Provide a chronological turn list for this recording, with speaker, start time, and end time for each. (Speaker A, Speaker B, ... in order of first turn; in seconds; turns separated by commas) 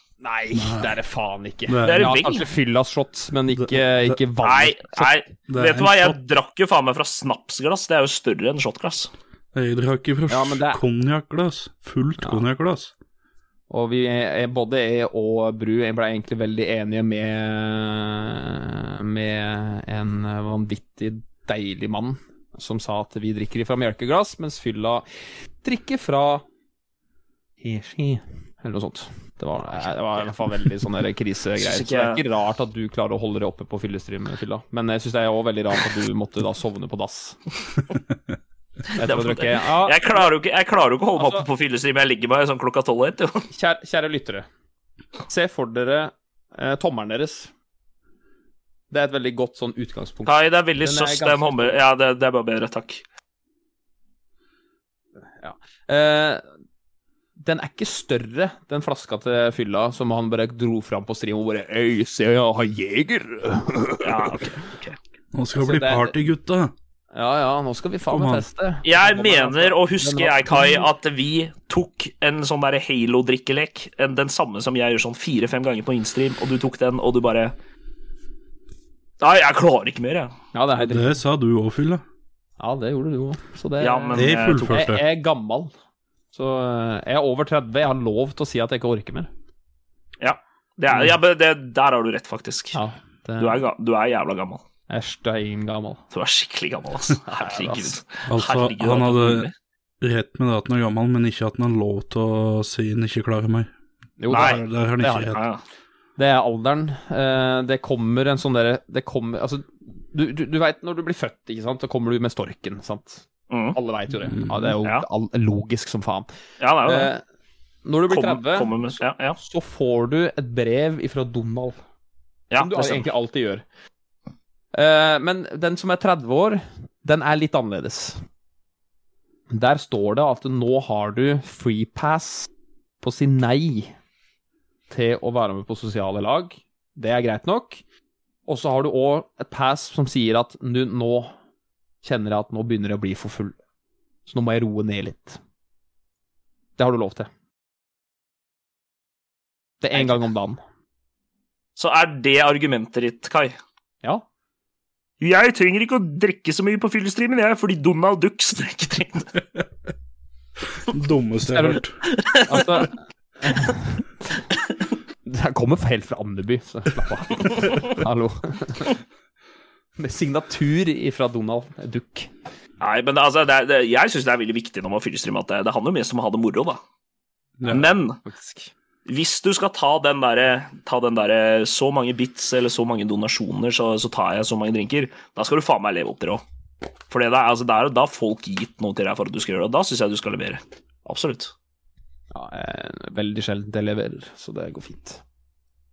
Speaker A: 0.2-5.1, Speaker B: 0.5-0.9, Speaker B: 1.7-2.1, Speaker C: 1.8-2.5, Speaker B: 3.5-4.2, Speaker C: 4.4-9.1, Speaker B: 5.5-6.2, Speaker B: 9.5-12.9, Speaker A: 10.3-10.8, Speaker A: 13.7-25.0, Speaker A: 25.6-26.4, Speaker A: 27.6-37.4, Speaker C: 31.6-32.2, Speaker C: 38.9-43.5, Speaker A: 38.9-40.2, Speaker A: 41.1-41.4, Speaker A: 43.5-44.5, Speaker A: 45.3-47.5, Speaker A: 48.9-51.8, Speaker C: 50.2-53.0, Speaker A: 55.2-56.4, Speaker A: 57.4-64.4, Speaker C: 64.0-65.0, Speaker B: 65.3-66.7, Speaker A: 65.5-66.2, Speaker A: 67.1-70.9, Speaker B: 68.1-68.4, Speaker C: 68.8-77.5, Speaker C: 79.2-80.3, Speaker A: 80.5-81.2, Speaker B: 80.8-82.0, Speaker A: 82.6-85.7, Speaker C: 83.8-84.9, Speaker B: 84.1-85.0, Speaker A: 86.3-89.3, Speaker C: 90.2-92.8, Speaker A: 92.7-93.6, Speaker C: 93.4-94.6, Speaker A: 94.9-96.0, Speaker C: 96.1-99.5, Speaker A: 97.2-98.0, Speaker B: 98.2-99.5, Speaker B: 100.0-103.7, Speaker A: 104.2-105.4, Speaker B: 104.3-105.4, Speaker C: 104.3-104.6, Speaker C: 105.3-105.6, Speaker A: 106.2-116.3, Speaker C: 113.5-113.8, Speaker B: 114.3-114.7, Speaker C: 116.6-117.1, Speaker A: 116.8-117.2, Speaker A: 117.8-121.8, Speaker C: 118.1-119.4, Speaker C: 122.5-123.1, Speaker A: 122.6-123.6, Speaker A: 124.7-128.2, Speaker A: 129.5-133.9, Speaker A: 134.9-137.8, Speaker A: 138.4-141.3, Speaker A: 142.0-143.6, Speaker A: 144.2-145.4, Speaker A: 146.8-147.3, Speaker A: 149.8-150.6, Speaker C: 151.8-153.6, Speaker C: 155.2-159.3, Speaker B: 160.8-162.0, Speaker A: 161.4-164.1, Speaker C: 162.0-162.9, Speaker A: 165.2-169.0, Speaker C: 167.4-167.8, Speaker A: 170.0-172.3, Speaker C: 172.8-176.8, Speaker B: 177.6-178.0, Speaker C: 177.7-178.2, Speaker A: 177.7-178.7, Speaker C: 179.1-186.4, Speaker C: 187.1-191.5, Speaker A: 192.3-195.2